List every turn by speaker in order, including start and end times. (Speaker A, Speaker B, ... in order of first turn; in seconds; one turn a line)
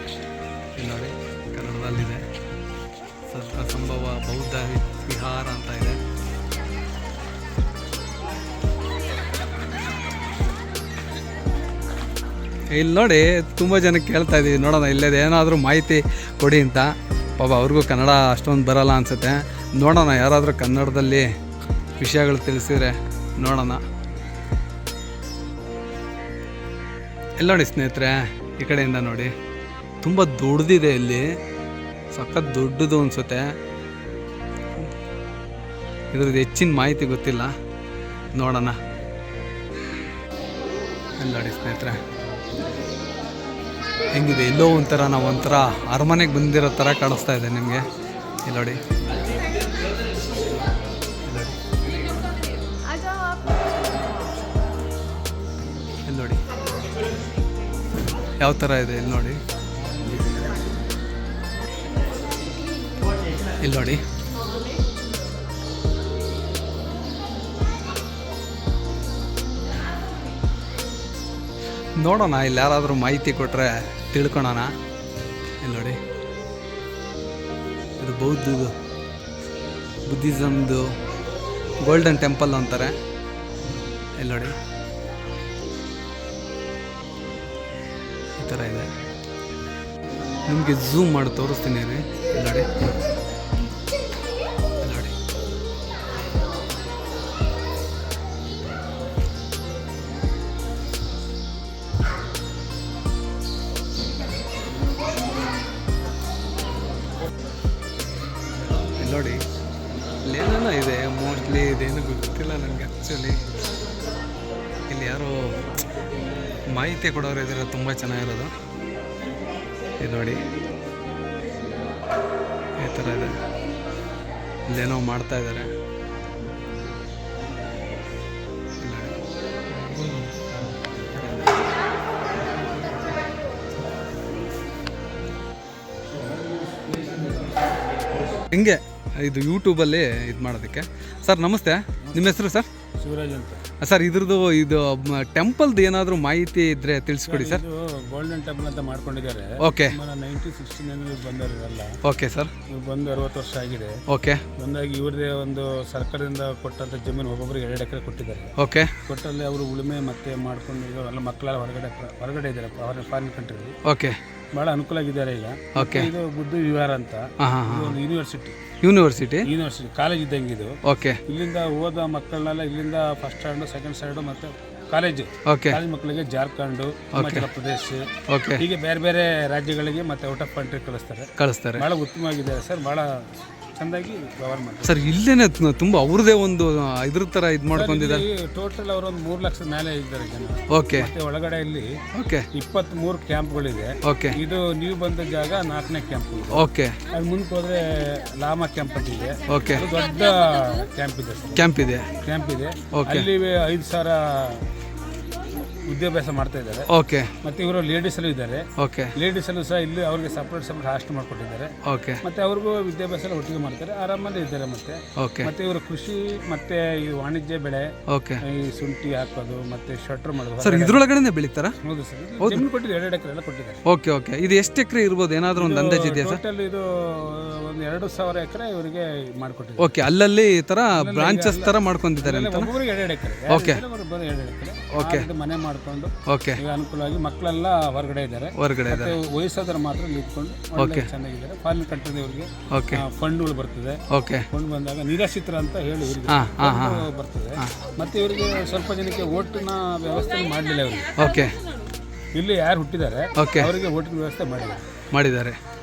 Speaker A: 0.8-2.2
Speaker A: 3.3-6.0
Speaker A: 12.7-21.3
Speaker A: 22.0-23.8
Speaker A: 27.4-29.3
Speaker A: 30.0-31.3
Speaker A: 32.1-33.5
Speaker A: 36.1-37.5
Speaker A: 38.3-38.8
Speaker A: 41.2-42.0
Speaker A: 44.1-47.8
Speaker A: 48.5-48.8
Speaker A: 51.2-51.6
Speaker A: 56.1-56.4
Speaker A: 58.4-59.4
Speaker A: 63.6-64.0
Speaker A: 72.0-74.7
Speaker A: 75.6-76.0
Speaker A: 78.0-78.8
Speaker A: 80.1-80.9
Speaker A: 81.8-83.0
Speaker A: 84.2-84.5
Speaker A: 88.4-88.9
Speaker A: 90.5-92.7
Speaker A: 94.8-95.1
Speaker A: 109.0-109.4
Speaker A: 110.2-113.4
Speaker A: 114.9-115.7
Speaker A: 116.7-118.5
Speaker A: 120.0-120.4
Speaker A: 122.8-123.3
Speaker A: 124.7-125.7
Speaker A: 128.8-129.2
Speaker A: 130.0-131.6
Speaker B: 136.2-137.2
Speaker A: 138.5-142.7
Speaker B: 143.0-143.6
Speaker A: 143.8-147.6
Speaker B: 147.3-151.9
Speaker A: 149.6-150.0
Speaker A: 152.0-152.5
Speaker B: 152.7-154.0
Speaker A: 154.1-154.4
Speaker B: 154.6-158.5
Speaker A: 158.6-158.9
Speaker B: 159.1-163.8
Speaker A: 163.8-164.2
Speaker B: 164.5-168.6
Speaker A: 165.8-166.1
Speaker A: 167.4-168.0
Speaker A: 168.8-169.5
Speaker B: 169.4-170.8
Speaker A: 170.8-171.2
Speaker B: 171.3-178.1
Speaker A: 175.5-175.8
Speaker A: 177.1-177.5
Speaker A: 178.3-178.6
Speaker B: 178.6-185.1
Speaker A: 181.4-181.8
Speaker A: 184.8-188.3
Speaker B: 187.7-192.0
Speaker A: 190.7-191.1
Speaker A: 192.1-192.5
Speaker B: 192.5-201.7
Speaker A: 194.0-194.4
Speaker A: 196.5-197.0
Speaker A: 199.5-199.9
Speaker A: 201.6-202.1
Speaker B: 202.2-204.7
Speaker A: 202.9-203.3
Speaker B: 205.8-206.9
Speaker A: 206.9-207.3
Speaker B: 207.4-217.9
Speaker A: 208.8-209.1
Speaker A: 211.8-212.2
Speaker A: 215.2-215.5
Speaker A: 218.1-218.4
Speaker B: 218.4-221.1
Speaker A: 220.6-221.8
Speaker B: 221.8-223.8
Speaker A: 223.8-226.4
Speaker B: 225.6-229.9
Speaker A: 229.8-232.7
Speaker B: 230.9-251.1
Speaker A: 233.5-233.8
Speaker A: 234.9-235.3
Speaker A: 236.3-236.6
Speaker A: 238.6-239.2
Speaker A: 240.8-241.1
Speaker A: 242.7-243.0
Speaker A: 244.1-244.5
Speaker A: 246.2-247.1
Speaker A: 251.2-251.6
Speaker B: 252.3-254.8
Speaker A: 253.4-253.7
Speaker A: 255.1-255.6